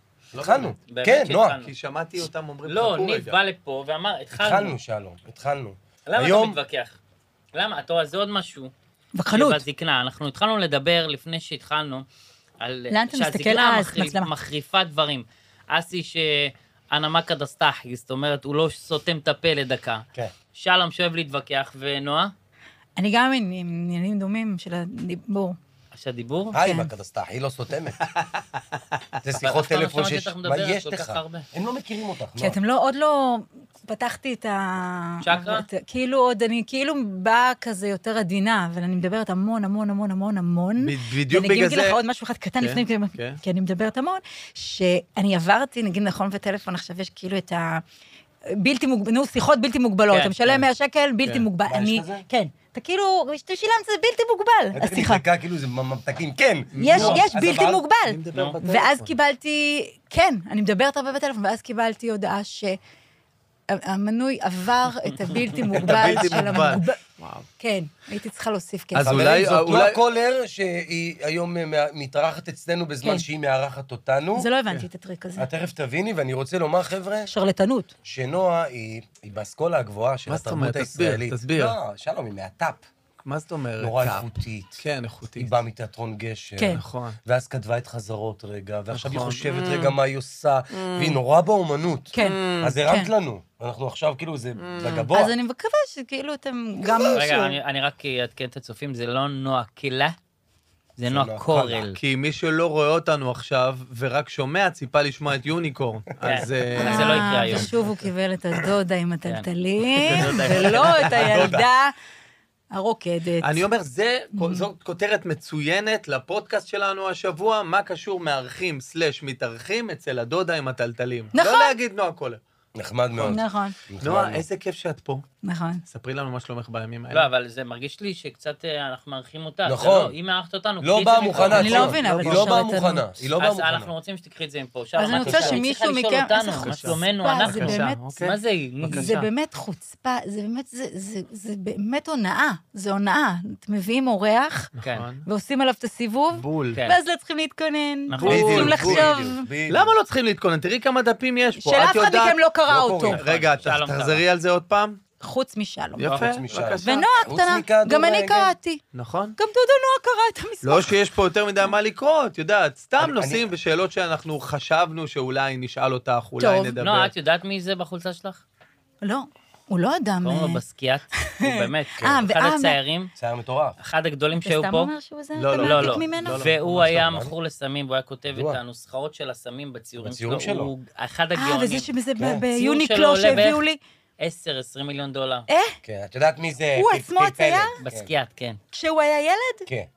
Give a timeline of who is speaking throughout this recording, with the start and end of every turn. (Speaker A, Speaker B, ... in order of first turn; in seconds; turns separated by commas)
Speaker A: 0.3-0.7, Speaker B: 0.3-1.6, Speaker C: 0.9-1.7, Speaker A: 1.6-3.4, Speaker C: 2.7-4.8, Speaker B: 4.3-6.6, Speaker C: 6.1-7.0, Speaker C: 7.5-8.7, Speaker D: 9.2-9.6, Speaker C: 9.3-12.1, Speaker C: 12.6-22.3, Speaker D: 12.9-14.3, Speaker D: 23.0-25.6, Speaker C: 25.9-26.6, Speaker B: 26.5-28.0, Speaker D: 26.6-26.9, Speaker A: 28.1-28.8, Speaker B: 29.2-32.6, Speaker C: 29.4-31.5, Speaker D: 32.4-47.8, Speaker C: 35.2-35.7, Speaker A: 40.8-42.0, Speaker A: 42.6-43.4, Speaker D: 48.5-55.2, Speaker C: 50.1-50.6, Speaker B: 51.6-52.3, Speaker B: 54.7-57.9, Speaker A: 56.7-59.1, Speaker D: 56.8-62.8, Speaker C: 58.3-58.6, Speaker D: 63.7-67.0, Speaker A: 65.6-67.5, Speaker B: 65.7-66.8, Speaker D: 67.6-69.3, Speaker A: 69.0-70.0, Speaker B: 69.0-74.5, Speaker D: 74.4-75.5, Speaker B: 75.4-77.3, Speaker D: 77.3-77.9, Speaker B: 78.0-82.9, Speaker A: 80.3-81.8, Speaker A: 83.2-85.5, Speaker B: 83.8-84.8, Speaker B: 85.4-95.3, Speaker D: 86.6-86.8, Speaker A: 86.7-87.2, Speaker A: 88.9-90.0, Speaker A: 90.7-91.2, Speaker D: 92.1-93.1, Speaker A: 92.2-92.8, Speaker A: 94.6-95.1, Speaker D: 95.1-97.6, Speaker C: 97.1-100.2, Speaker C: 101.0-102.0, Speaker B: 101.1-101.9, Speaker A: 102.0-107.7, Speaker C: 106.2-107.7, Speaker D: 106.8-111.9, Speaker C: 109.3-111.2, Speaker A: 110.1-111.5, Speaker B: 110.9-111.7, Speaker D: 112.7-113.6, Speaker A: 113.4-122.4, Speaker D: 114.3-114.6, Speaker D: 121.3-121.8, Speaker B: 122.8-124.5, Speaker D: 123.2-123.8, Speaker A: 124.0-125.2, Speaker D: 125.4-125.8, Speaker A: 125.9-127.3, Speaker C: 127.1-131.9, Speaker B: 129.7-130.2, Speaker B: 130.8-133.9, Speaker A: 131.3-132.7, Speaker D: 131.5-133.1, Speaker C: 133.2-139.2, Speaker D: 135.0-138.0, Speaker B: 135.2-135.7, Speaker A: 136.5-139.3, Speaker D: 138.9-144.7, Speaker A: 144.8-145.3, Speaker C: 144.8-145.1, Speaker D: 145.3-149.5, Speaker A: 146.3-146.8, Speaker C: 148.1-148.8, Speaker A: 148.2-149.1, Speaker B: 148.2-149.9, Speaker A: 149.7-152.4, Speaker D: 151.6-153.2, Speaker B: 152.7-153.2, Speaker C: 153.1-154.2, Speaker A: 153.2-155.0, Speaker D: 155.2-156.2, Speaker A: 156.0-157.1, Speaker C: 156.1-156.4, Speaker B: 156.1-158.5, Speaker D: 156.8-158.8, Speaker A: 158.9-159.3, Speaker D: 159.4-160.9, Speaker A: 160.6-167.1, Speaker B: 163.0-163.5, Speaker D: 166.4-166.8, Speaker C: 166.8-168.4, Speaker D: 169.0-170.6, Speaker C: 170.2-173.1, Speaker D: 171.2-172.8, Speaker B: 172.0-172.3, Speaker B: 173.2-173.8, Speaker C: 173.8-174.9, Speaker D: 174.4-176.4, Speaker A: 175.4-176.5, Speaker C: 175.6-181.9, Speaker B: 176.3-177.3, Speaker B: 178.3-178.6, Speaker B: 180.0-180.7, Speaker D: 181.4-183.8, Speaker B: 182.2-182.4, Speaker C: 182.5-183.6, Speaker C: 184.2-185.5, Speaker D: 185.5-185.8, Speaker B: 185.8-188.1, Speaker D: 186.8-187.8, Speaker C: 187.8-188.6, Speaker D: 188.7-189.7